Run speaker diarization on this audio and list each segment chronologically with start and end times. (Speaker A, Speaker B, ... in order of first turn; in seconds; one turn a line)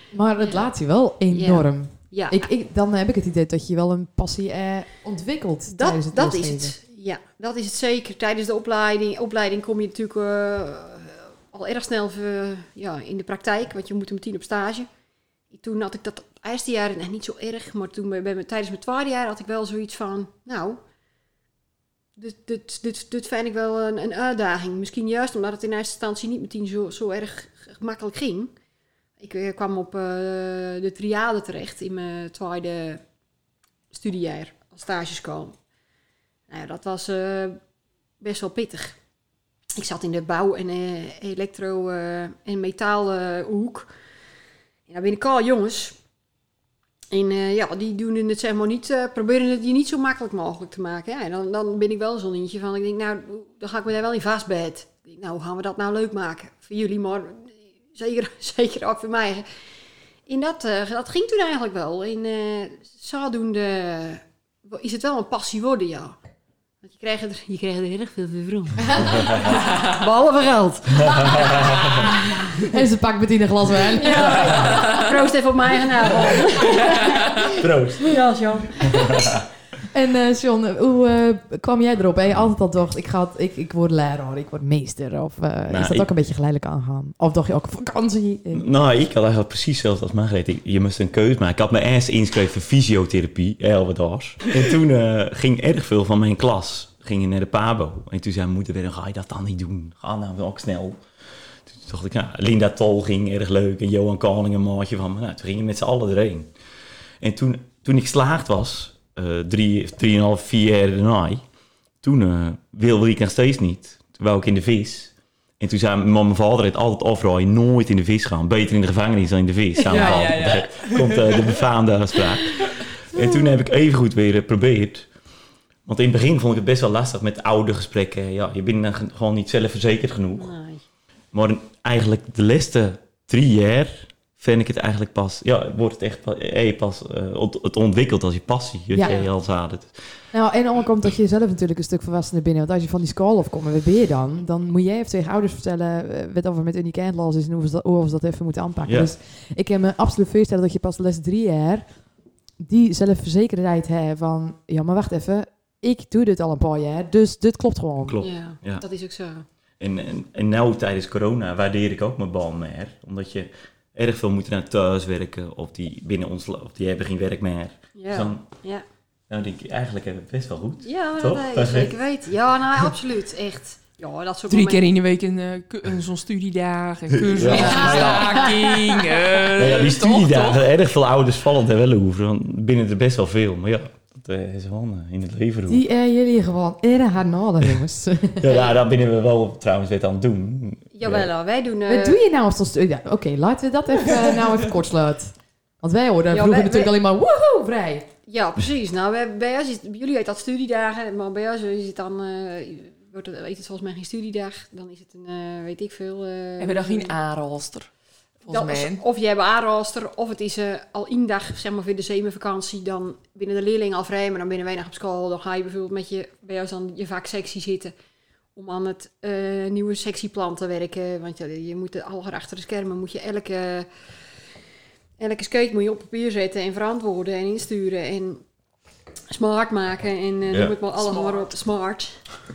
Speaker A: 0.1-6.8
Speaker B: 1.3-2.5
Speaker B: 5.7-14.9
Speaker B: 15.5-20.8
Speaker B: 22.2-28.5
Speaker B: 29.2-33.0
Speaker B: 33.9-35.5
Speaker B: 36.5-37.6
Speaker B: 38.2-39.0
Speaker B: 39.8-43.9
Speaker B: 44.9-46.0
Speaker B: 47.1-59.5
Speaker B: 60.3-66.2
Speaker B: 66.8-72.4
Speaker C: 69.1-69.6
Speaker C: 71.0-72.1
Speaker A: 72.6-74.7
Speaker B: 74.0-79.3
Speaker C: 74.4-74.7
Speaker C: 77.5-78.2
Speaker C: 78.8-79.5
Speaker A: 79.9-88.7
Speaker C: 85.7-86.1
Speaker C: 88.5-101.0
Speaker C: 101.7-106.5
Speaker C: 107.2-111.4
Speaker C: 112.0-125.1
Speaker D: 119.9-121.5
Speaker C: 125.9-130.5
Speaker B: 130.4-130.8
Speaker C: 131.3-139.9
Speaker A: 138.9-139.2
Speaker B: 139.0-139.3
Speaker A: 140.3-151.9
Speaker A: 152.6-158.2
Speaker C: 158.1-158.8
Speaker B: 158.2-159.4
Speaker C: 159.8-168.4
Speaker B: 168.0-168.8
Speaker C: 169.3-171.9
Speaker B: 170.8-174.9
Speaker D: 174.5-180.6
Speaker C: 177.1-178.6
Speaker B: 177.4-178.5
Speaker C: 179.6-185.8
Speaker A: 185.7-188.6
Speaker C: 188.4-191.3
Speaker B: 190.9-192.2
Speaker A: 191.9-198.1
Speaker B: 196.3-196.9
Speaker B: 198.3-207.1
Speaker D: 206.6-207.9
Speaker D: 208.4-209.0
Speaker B: 208.5-217.9
Speaker B: 218.6-223.9
Speaker B: 225.2-228.4
Speaker B: 229.3-232.2